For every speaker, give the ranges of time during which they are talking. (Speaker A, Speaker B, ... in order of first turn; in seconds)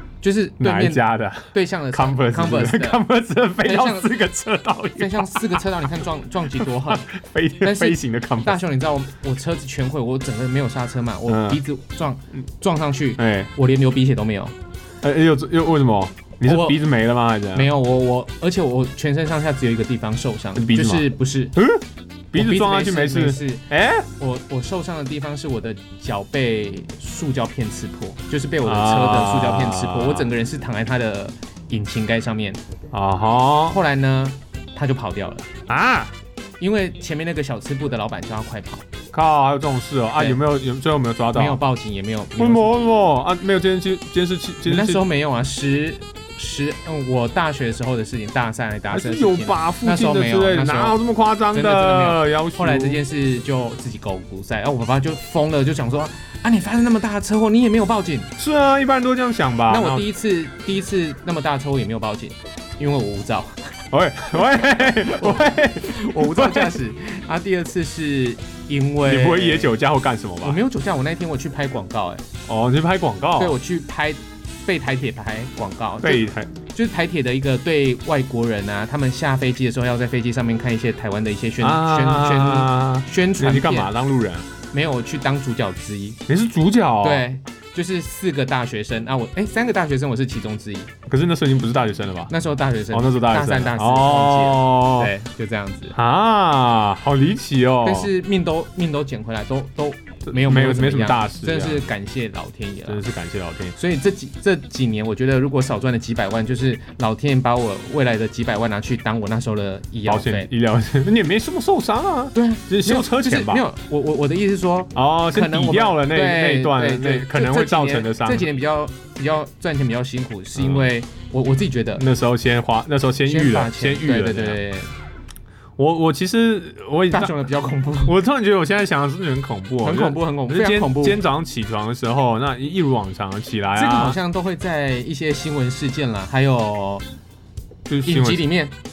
Speaker A: 0.2-3.0, 3.6-4.1, 5.0-7.1, 7.6-14.5, 16.4-16.8, 17.5-21.6, 22.3-23.6, 24.2-32.6, 33.7-35.5, 36.6-38.8, 41.3-42.7, 44.6-51.0, 51.5-58.3, 59.7-63.7, 64.5-69.8, 70.4-72.2, 73.3-83.9, 84.7-86.2, 87.0-90.9, 92.3-96.0, 97.8-103.0, 103.8-110.5, 112.3-122.0, 123.2-124.9, 127.1-128.2, 129.8-131.2, 133.7-137.0, 138.1-138.7
Speaker B: 0.6-5.6, 6.5-8.6, 11.3-11.6, 13.2-13.5, 15.0-17.7, 20.6-24.1, 28.6-30.3, 32.9-33.8, 35.7-36.1, 39.1-41.6, 42.4-45.0, 48.9-53.0, 58.4-60.1, 63.9-66.8, 69.0-70.6, 72.5-73.6, 76.0-76.5, 81.6-84.5, 86.3-87.2, 91.1-92.3, 92.9-95.1, 95.9-98.1, 100.3-101.9, 102.9-103.7, 110.0-113.6, 114.9-118.5, 120.5-120.9, 122.0-124.6, 125.8-127.3, 128.0-134.2, 137.8-138.5